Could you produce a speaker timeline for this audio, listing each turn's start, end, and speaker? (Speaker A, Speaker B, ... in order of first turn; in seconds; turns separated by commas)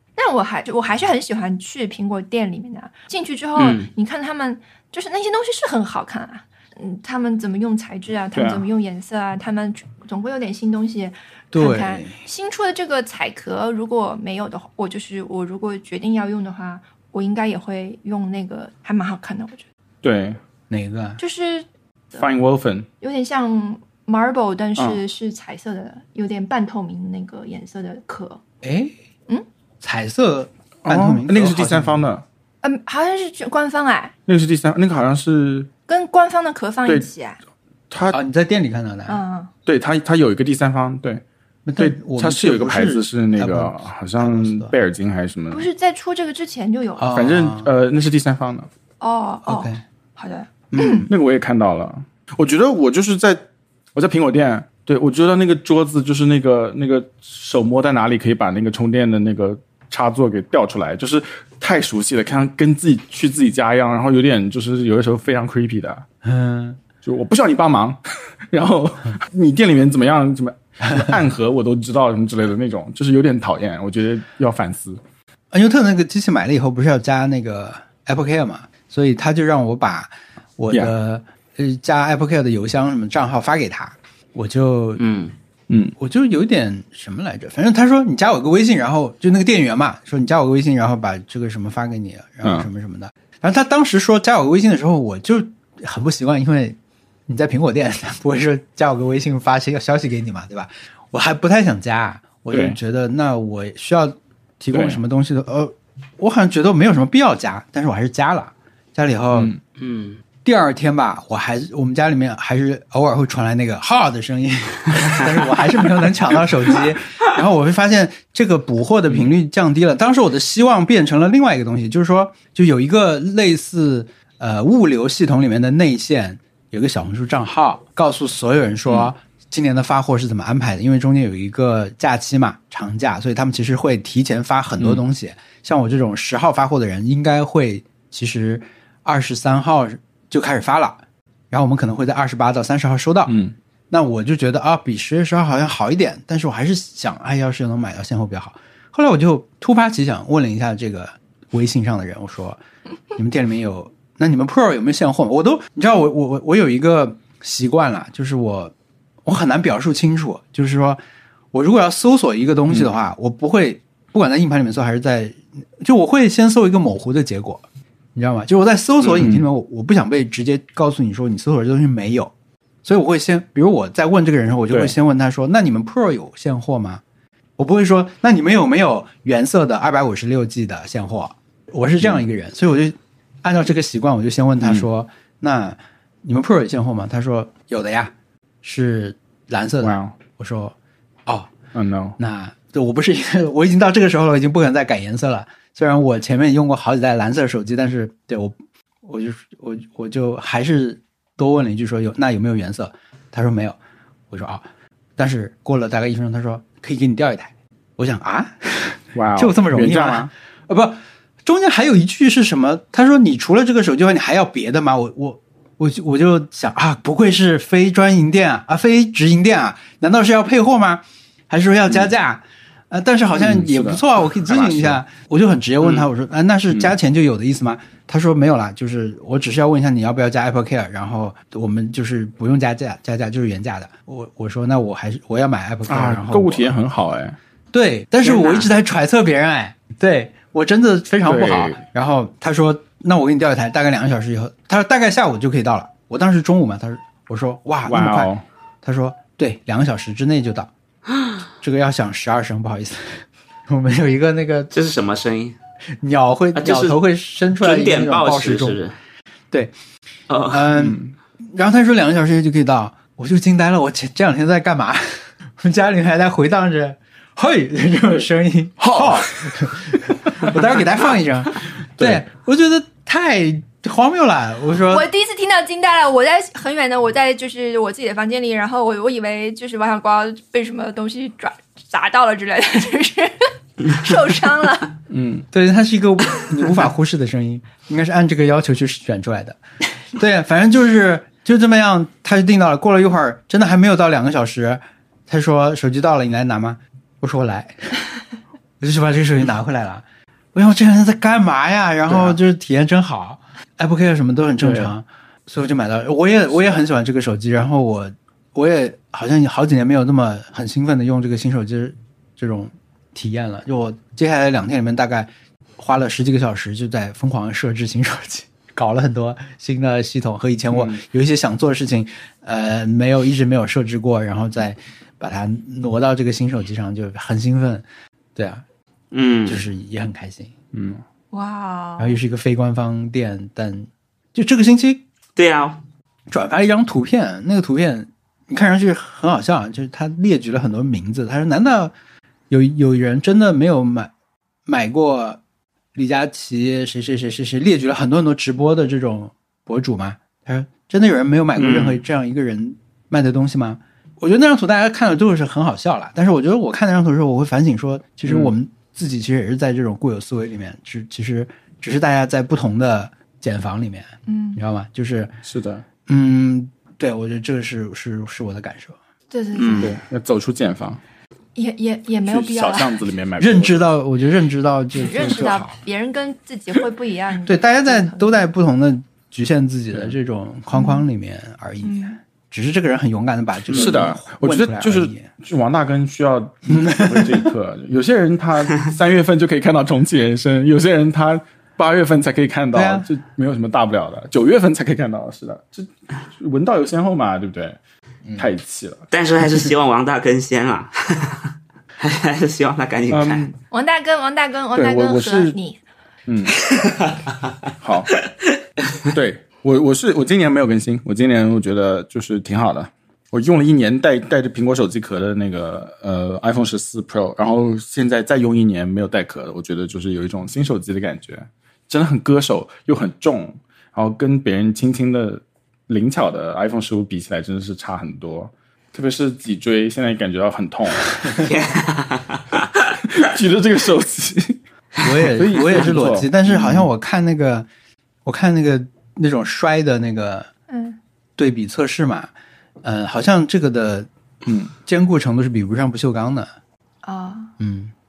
Speaker A: 0.1-19.6, Speaker B: 3.6-3.9, Speaker C: 8.3-8.7, Speaker D: 11.5-12.2, Speaker C: 20.0-20.4, Speaker D: 20.7-21.2, Speaker A: 21.2-22.3, Speaker C: 22.1-22.9, Speaker A: 23.0-28.4, Speaker C: 24.8-25.0, Speaker D: 28.6-28.9, Speaker D: 29.8-32.0, Speaker C: 30.8-32.2, Speaker A: 32.6-34.1, Speaker C: 34.3-35.7, Speaker A: 35.9-37.4, Speaker C: 37.9-38.2, Speaker D: 38.1-39.2, Speaker A: 39.1-39.5, Speaker C: 39.6-41.2, Speaker D: 41.6-44.7, Speaker C: 41.8-45.7, Speaker A: 45.5-47.1, Speaker D: 47.0-47.7, Speaker C: 47.1-48.7, Speaker A: 49.0-51.1, Speaker D: 49.4-49.8, Speaker D: 50.7-51.1, Speaker C: 51.1-53.4, Speaker C: 53.9-66.0, Speaker D: 66.2-66.8, Speaker C: 67.0-68.0, Speaker C: 68.5-75.0, Speaker D: 75.5-85.0, Speaker B: 85.0-85.3, Speaker C: 85.7-85.9, Speaker D: 86.0-109.5, Speaker C: 102.5-102.8, Speaker C: 104.7-105.0, Speaker C: 109.3-109.6, Speaker B: 109.8-110.2, Speaker D: 110.4-143.3, Speaker C: 143.3-143.5, Speaker D: 143.9-152.6, Speaker D: 153.2-158.7, Speaker D: 159.2-161.0, Speaker D: 161.5-167.6, Speaker D: 168.1-172.3, Speaker C: 169.2-169.4, Speaker D: 172.8-177.0, Speaker D: 177.6-190.7, Speaker C: 189.8-190.1, Speaker D: 191.2-191.5, Speaker C: 191.7-192.2, Speaker D: 192.2-203.8, Speaker D: 204.3-204.6, Speaker D: 205.2-236.7, Speaker C: 209.1-210.3, Speaker C: 223.3-225.0, Speaker C: 235.9-237.4, Speaker D: 237.7-248.3, Speaker B: 238.2-238.7, Speaker C: 241.2-241.8, Speaker C: 247.8-248.4, Speaker D: 248.8-250.7, Speaker D: 251.6-254.7, Speaker B: 254.7-255.6, Speaker D: 256.0-258.8, Speaker B: 256.5-257.0, Speaker B: 257.6-258.9, Speaker B: 260.3-260.6, Speaker D: 260.5-275.1, Speaker C: 260.7-261.1, Speaker C: 268.8-270.5, Speaker C: 272.0-272.2, Speaker A: 274.9-284.9, Speaker C: 285.1-285.4, Speaker D: 285.5-289.6, Speaker D: 290.1-298.0, Speaker D: 298.8-327.8, Speaker C: 302.1-302.4, Speaker C: 304.6-304.9, Speaker C: 320.7-321.0, Speaker D: 328.4-328.6, Speaker B: 329.1-329.6, Speaker D: 329.5-330.5, Speaker C: 330.7-331.0, Speaker A: 331.3-332.2, Speaker D: 332.0-335.0, Speaker B: 335.4-335.8, Speaker D: 336.3-341.9, Speaker D: 342.5-344.1, Speaker D: 344.6-345.4, Speaker D: 345.9-365.3, Speaker B: 351.6-352.0, Speaker C: 358.3-358.5, Speaker A: 364.3-364.6, Speaker C: 365.4-365.8, Speaker D: 366.1-369.0, Speaker A: 369.3-369.9, Speaker B: 369.5-369.9, Speaker C: 369.8-371.0, Speaker A: 371.6-373.0, Speaker C: 372.2-373.9, Speaker D: 373.4-375.7, Speaker A: 375.0-378.4, Speaker D: 377.4-385.3, Speaker A: 380.7-381.0, Speaker A: 381.8-382.2, Speaker C: 383.7-397.8, Speaker D: 386.7-387.5, Speaker D: 392.7-393.1, Speaker C: 398.4-399.1, Speaker B: 399.1-403.5, Speaker C: 403.1-403.5, Speaker A: 403.7-405.8, Speaker C: 404.7-405.6, Speaker C: 406.3-406.6, Speaker B: 406.6-407.3, Speaker C: 407.8-408.1, Speaker C: 409.1-431.4, Speaker B: 431.3-432.7, Speaker C: 433.1-436.9, Speaker D: 435.0-437.7, Speaker D: 438.2-440.5, Speaker A: 440.7-441.0, Speaker D: 441.4-442.3, Speaker D: 442.8-444.1, Speaker C: 444.4-444.7, Speaker D: 444.8-446.5, Speaker A: 447.0-447.5, Speaker D: 447.6-447.9